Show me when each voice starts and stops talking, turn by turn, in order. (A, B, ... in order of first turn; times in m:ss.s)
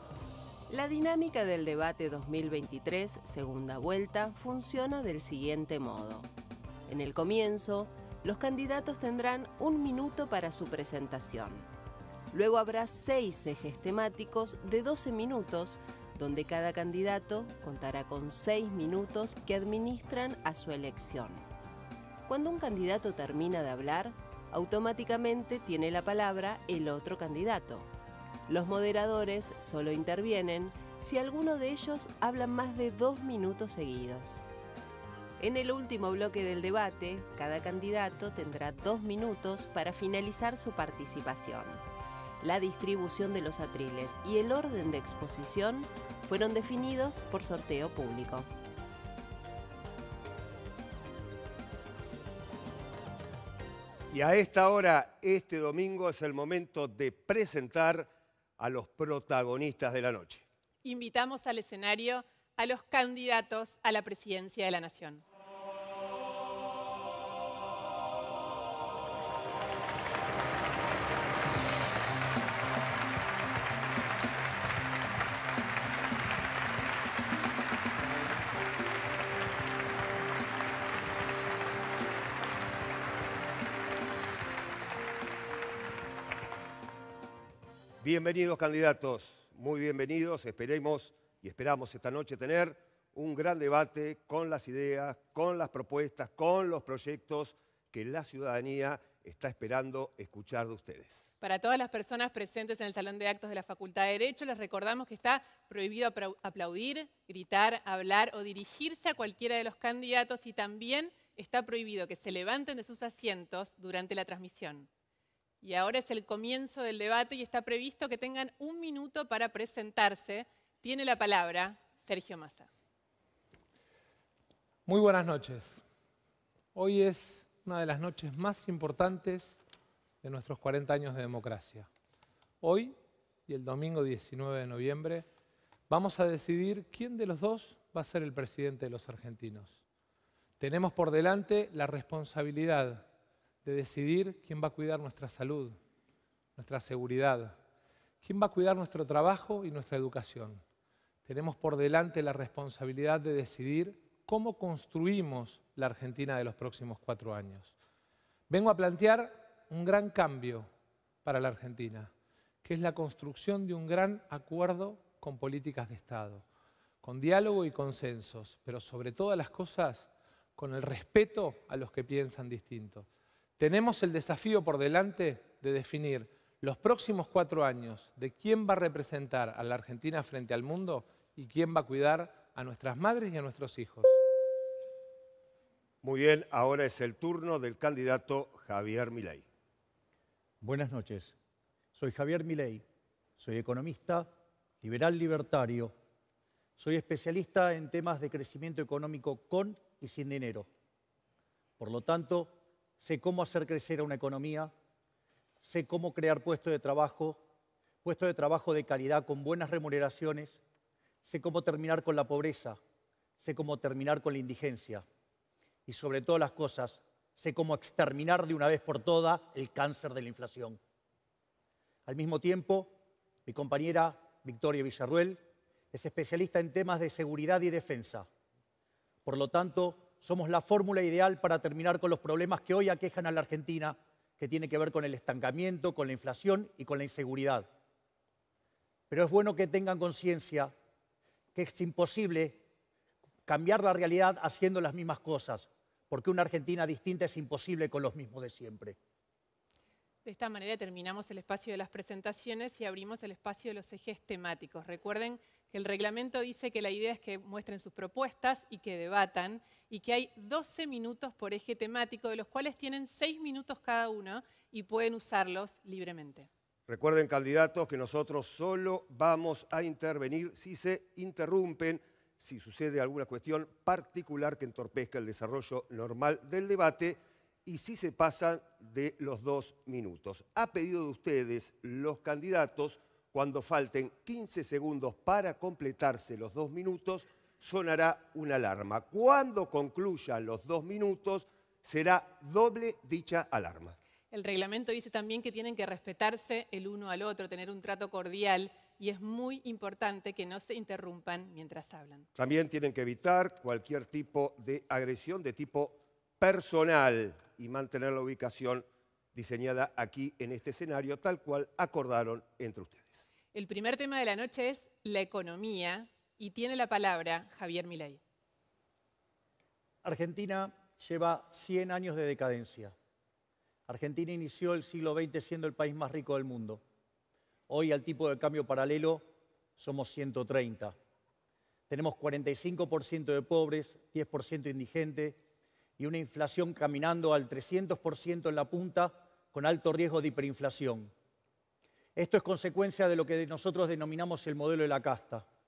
0:00.7-0:06.3 A
0:06.9-0:11.7 A
0:12.3-0:21.5 A
0:22.3-0:27.9 A
0:28.5-0:34.4 A
0:35.4-0:41.8 A
0:42.4-0:48.5 A
0:54.1-1:00.4 B
1:00.8-1:05.2 C
1:28.0-1:41.3 B
1:41.4-1:54.9 C
1:55.6-2:02.7 C
2:04.9-2:05.8 D
2:06.8-2:09.6 D
2:10.2-2:11.9 D
2:12.6-2:13.0 D
2:13.5-2:15.2 D
2:15.9-2:19.8 D
2:20.6-2:23.0 D
2:23.6-2:25.7 D
2:26.6-2:27.5 D
2:28.2-2:30.6 D
2:31.2-2:37.7 D
2:38.5-2:40.7 D
2:41.2-2:42.1 D
2:42.6-2:46.4 D
2:47.0-2:53.1 D
2:53.6-3:04.2 D
3:06.0-3:09.5 B
3:10.6-3:11.4 E
3:12.0-3:12.8 E
3:13.4-3:14.3 E
3:14.8-3:15.9 E
3:16.8-3:20.7 E
3:21.8-3:24.7 E
3:25.6-3:27.4 E
3:28.0-3:30.6 E
3:31.2-3:32.8 E
3:33.4-3:35.0 E
3:35.9-3:40.8 E
3:42.1-3:42.9 E
3:43.5-3:45.4 E
3:45.9-3:48.3 E
3:49.2-3:57.7 E
3:59.1-4:00.7 E
4:01.6-4:02.6 E
4:03.5-4:09.0 E
4:10.2-4:26.5 C
4:26.9-4:54.0 B
4:54.3-5:02.3 C
5:02.4-5:13.3 B
5:13.5-5:18.2 C
5:20.0-5:22.9 E
5:23.9-5:26.8 E
5:27.7-5:29.2 E
5:29.8-5:31.0 E
5:31.9-5:35.4 E
5:36.0-5:41.1 E
5:42.2-5:45.4 E